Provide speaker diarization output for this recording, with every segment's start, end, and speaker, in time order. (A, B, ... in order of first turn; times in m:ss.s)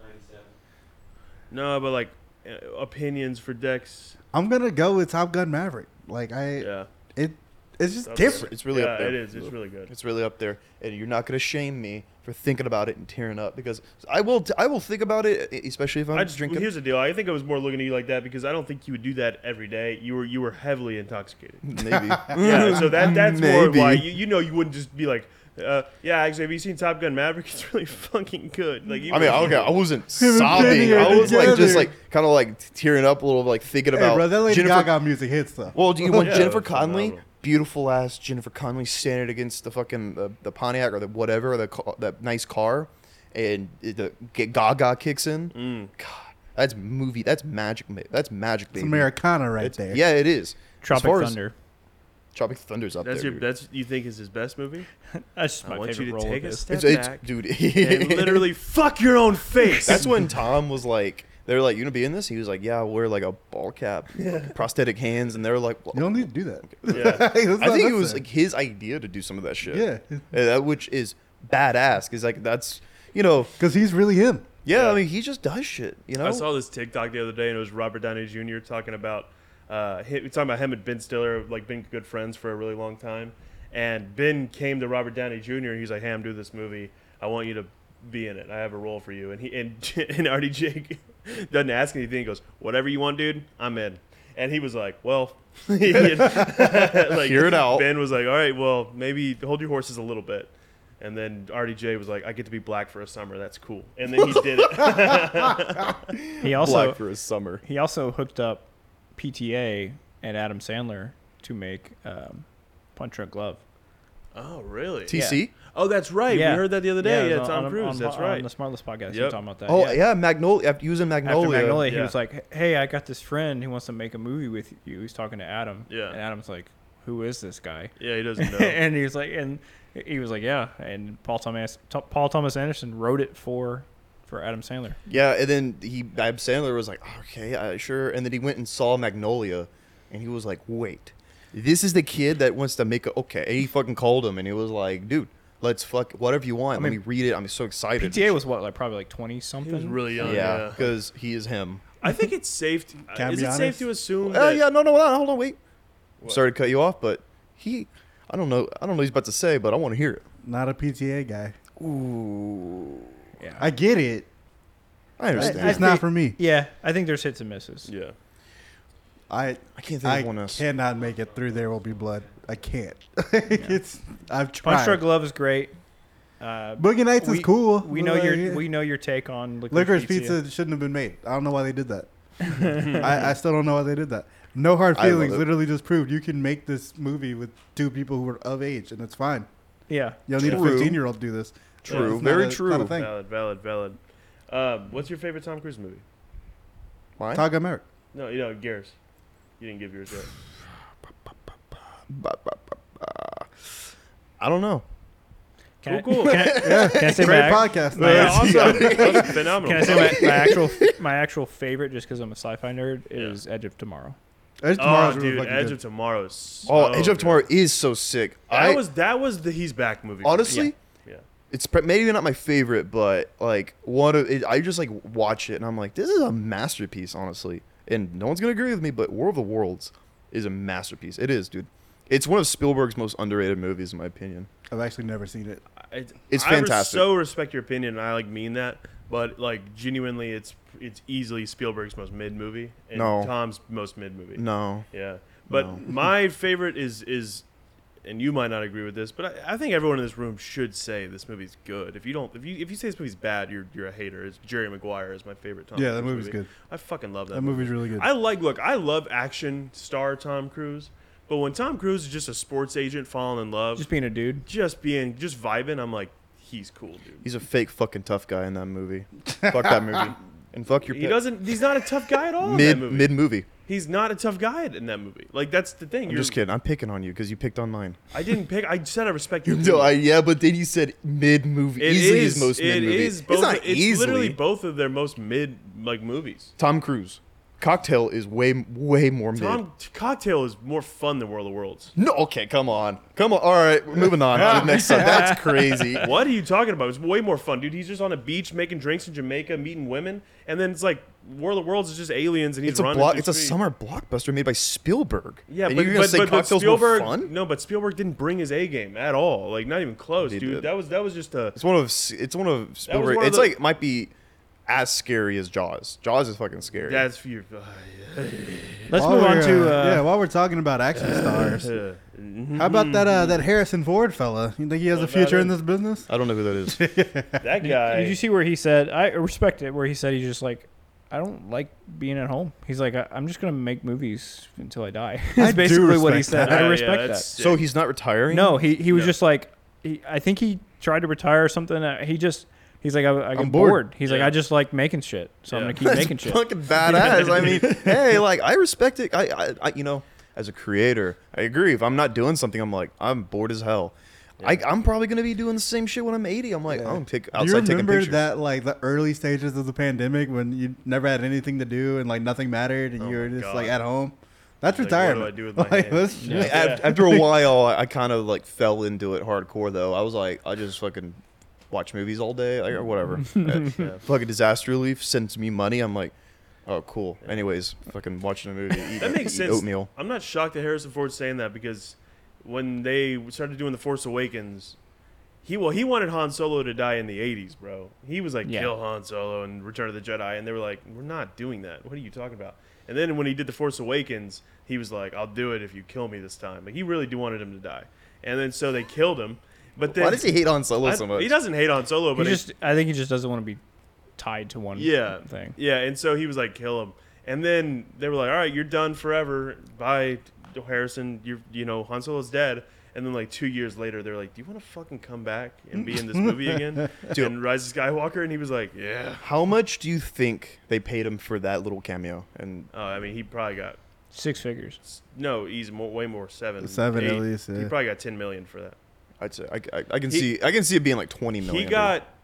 0:01.5-0:04.2 A
0:04.3-0:08.5 B
0:06.6-0:06.9 A
0:08.0-0:09.9 A
0:08.2-0:16.7 C
0:16.1-0:21.7 A
0:21.6-0:24.1 C
0:21.8-0:22.9 B
0:22.4-0:31.8 A
0:29.1-0:34.9 C
0:30.1-0:31.9 B
0:33.9-0:36.5 B
0:35.7-0:51.4 C
0:36.0-0:37.2 A
0:45.5-0:45.9 A
0:48.7-0:50.0 B
0:50.8-0:51.5 D
0:52.3-0:53.4 C
0:53.0-0:54.9 A
0:55.1-0:56.6 D
0:55.6-1:00.1 A
0:56.7-0:58.5 C
0:59.8-1:06.3 C
1:04.2-1:04.5 A
1:05.9-1:08.2 B
1:06.8-1:13.6 C
1:06.8-1:07.2 A
1:09.7-1:10.2 B
1:13.6-1:14.5 B
1:14.6-1:16.4 C
1:14.7-1:15.0 A
1:16.2-1:46.0 A
1:36.4-1:37.8 C
1:46.1-1:47.6 C
1:46.4-1:47.0 D
1:47.6-1:53.6 D
1:54.3-1:58.5 A
1:55.1-1:55.5 C
1:55.1-1:55.4 D
1:56.3-2:00.0 D
1:59.1-1:59.4 A
1:59.7-2:01.9 C
2:01.2-2:15.0 D
2:01.8-2:02.1 A
2:05.9-2:06.2 A
2:08.0-2:08.8 A
2:15.1-2:28.4 C
2:26.7-2:27.0 D
2:28.0-2:30.6 D
2:29.6-2:31.0 A
2:30.2-2:31.9 C
2:32.0-2:34.6 A
2:33.1-2:33.9 B
2:34.2-2:35.6 C
2:36.3-2:40.2 C
2:40.4-2:41.5 B
2:41.8-2:43.1 C
2:43.4-2:43.7 D
2:43.6-2:44.3 B
2:45.2-2:45.9 C
2:45.3-2:46.4 B
2:45.4-2:47.9 D
2:47.8-2:48.1 A
2:49.3-2:55.0 B
2:49.8-2:50.6 C
2:54.6-2:55.8 D
2:56.4-3:00.4 D
2:56.8-2:58.7 B
2:59.7-3:09.5 B
3:02.5-3:03.0 D
3:04.9-3:05.4 C
3:09.9-3:10.2 D
3:10.3-3:13.1 B
3:10.4-3:11.0 C
3:10.4-3:10.8 A
3:11.8-3:12.2 A
3:11.8-3:13.0 C
3:12.9-3:16.0 A
3:17.2-3:17.4 C
3:17.3-3:17.8 B
3:18.1-3:18.9 A
3:19.6-3:20.3 A
3:22.1-3:23.7 C
3:24.4-3:24.8 C
3:25.8-3:26.6 A
3:25.8-3:29.0 D
3:26.2-3:27.4 C
3:26.5-3:29.4 B
3:28.0-3:30.3 A
3:28.0-3:30.8 C
3:29.6-3:34.2 D
3:34.6-3:35.8 B
3:34.8-3:37.5 A
3:36.6-3:38.8 C
3:38.5-3:41.2 A
3:40.2-3:40.7 C
3:41.5-3:54.5 C
3:54.7-3:55.6 B
3:55.8-4:07.4 A
3:56.3-3:57.0 C
4:02.9-4:03.3 C
4:04.4-4:04.8 C
4:05.5-4:05.8 C
4:08.0-4:23.9 A
4:15.7-4:16.5 B
4:17.3-4:18.1 B
4:23.8-4:24.4 D
4:24.4-4:27.2 A
4:27.2-4:31.2 C
4:29.4-4:30.1 B
4:30.9-4:36.4 A
4:32.4-4:33.5 C
4:36.1-4:38.0 C
4:38.1-4:39.9 A
4:39.4-4:44.4 C
4:41.8-4:46.5 A
4:46.6-4:49.6 C
4:49.3-4:51.9 A
4:52.0-4:56.1 C
4:54.3-4:54.8 A
4:54.7-4:55.9 D
4:56.0-5:03.6 A
5:02.6-5:07.3 C
5:05.5-5:11.6 A
5:10.2-5:10.7 C
5:11.6-5:14.1 C
5:12.9-5:13.6 A
5:14.7-5:17.1 C
5:16.8-5:18.9 A
5:18.9-5:20.0 D
5:18.9-5:21.7 B
5:20.9-5:23.4 A
5:22.6-5:26.1 B
5:24.9-5:25.6 A
5:26.1-5:26.8 C
5:26.7-5:27.4 B
5:27.4-5:28.2 A
5:27.6-5:37.3 D
5:35.4-5:36.8 B
5:36.4-5:37.7 A
5:37.4-5:38.6 C
5:38.3-5:46.5 D
5:38.9-5:39.1 A
5:43.4-5:43.8 C
5:44.0-5:44.3 A
5:45.5-5:45.8 A
5:45.8-5:58.2 C
5:46.8-5:48.1 A
5:56.7-6:07.2 B
6:03.0-6:03.8 A
6:04.7-6:07.1 A
6:06.2-6:06.5 D
6:06.3-6:16.1 C
6:13.7-6:14.0 A
6:16.6-6:19.9 C
6:17.2-6:17.5 A
6:18.9-6:24.8 A
6:25.4-6:42.4 A
6:28.4-6:28.7 D
6:39.8-6:41.4 C
6:42.2-6:43.6 D
6:44.2-6:45.6 D
6:44.8-6:59.2 A
6:55.8-6:57.1 B
6:59.2-7:02.7 C
7:02.7-7:03.8 A
7:04.1-7:04.8 D
7:04.8-7:08.8 A
7:06.6-7:07.7 B
7:09.2-7:12.0 C
7:11.4-7:12.1 A